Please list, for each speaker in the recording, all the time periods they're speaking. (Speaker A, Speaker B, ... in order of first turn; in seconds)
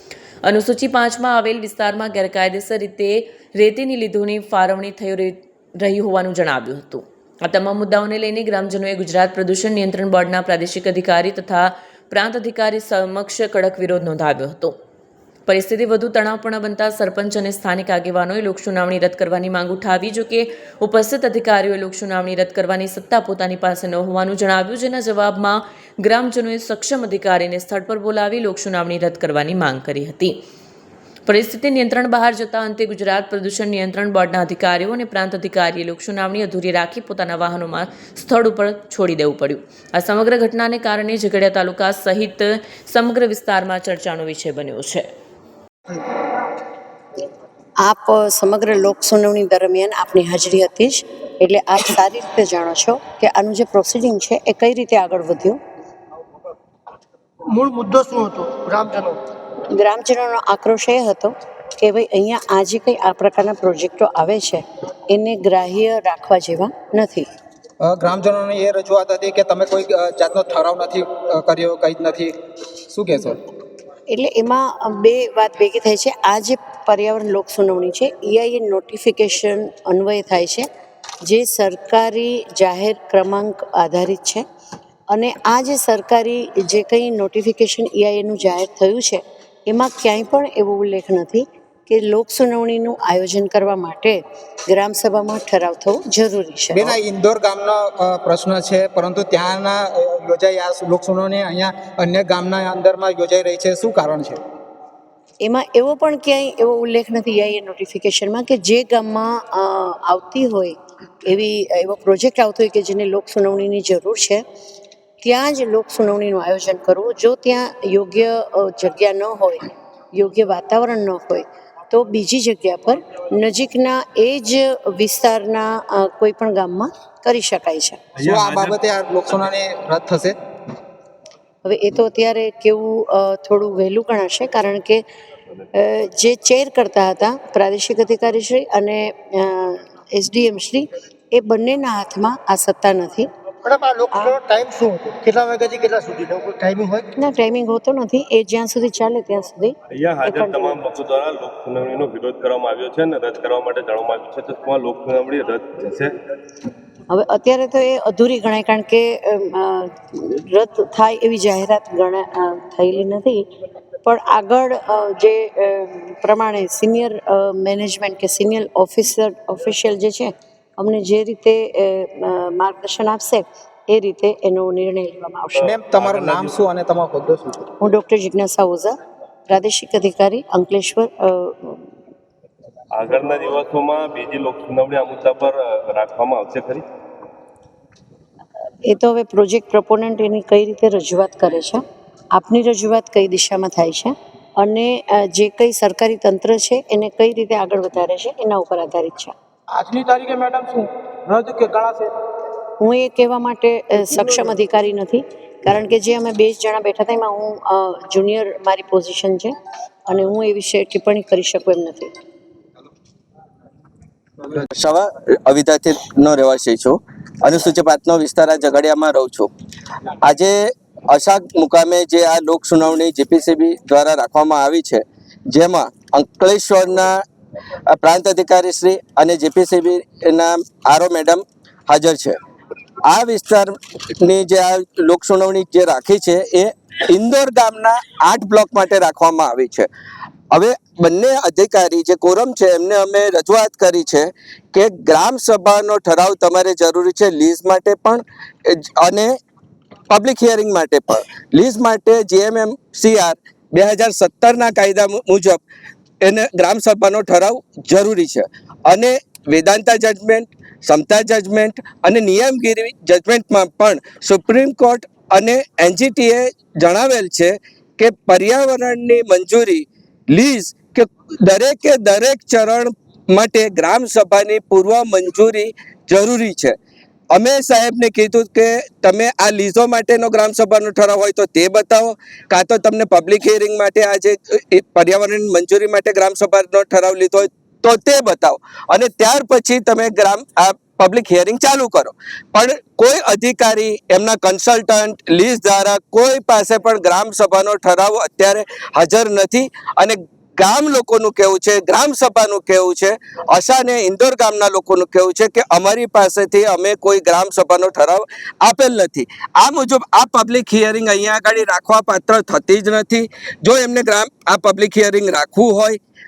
Speaker A: 0.4-14.8, 15.5-30.4, 31.2-45.1
Speaker B: 47.8-55.6, 59.6-67.3, 74.1-80.7, 81.2-84.4, 85.1-97.0, 105.4-114.4, 115.2-128.0, 131.6-135.0, 135.7-143.3, 144.1-144.4, 147.2-150.8, 157.1-163.4, 164.0-175.6, 177.8-179.0, 179.5-181.9, 188.8-191.8, 192.3-199.3, 202.8-209.5, 210.1-212.1
Speaker C: 57.5-59.2, 143.6-147.1
Speaker D: 67.8-72.3, 72.9-73.4, 96.7-104.4, 128.2-130.3, 175.6-177.7, 199.7-202.1
Speaker E: 128.2-128.8, 149.9-156.1, 175.5-176.5, 182.9-186.8
Speaker F: 214.7-219.5, 220.2-227.2, 227.9-232.3, 233.0-239.9, 240.5-249.3, 250.1-255.6, 256.2-276.7, 277.3-316.0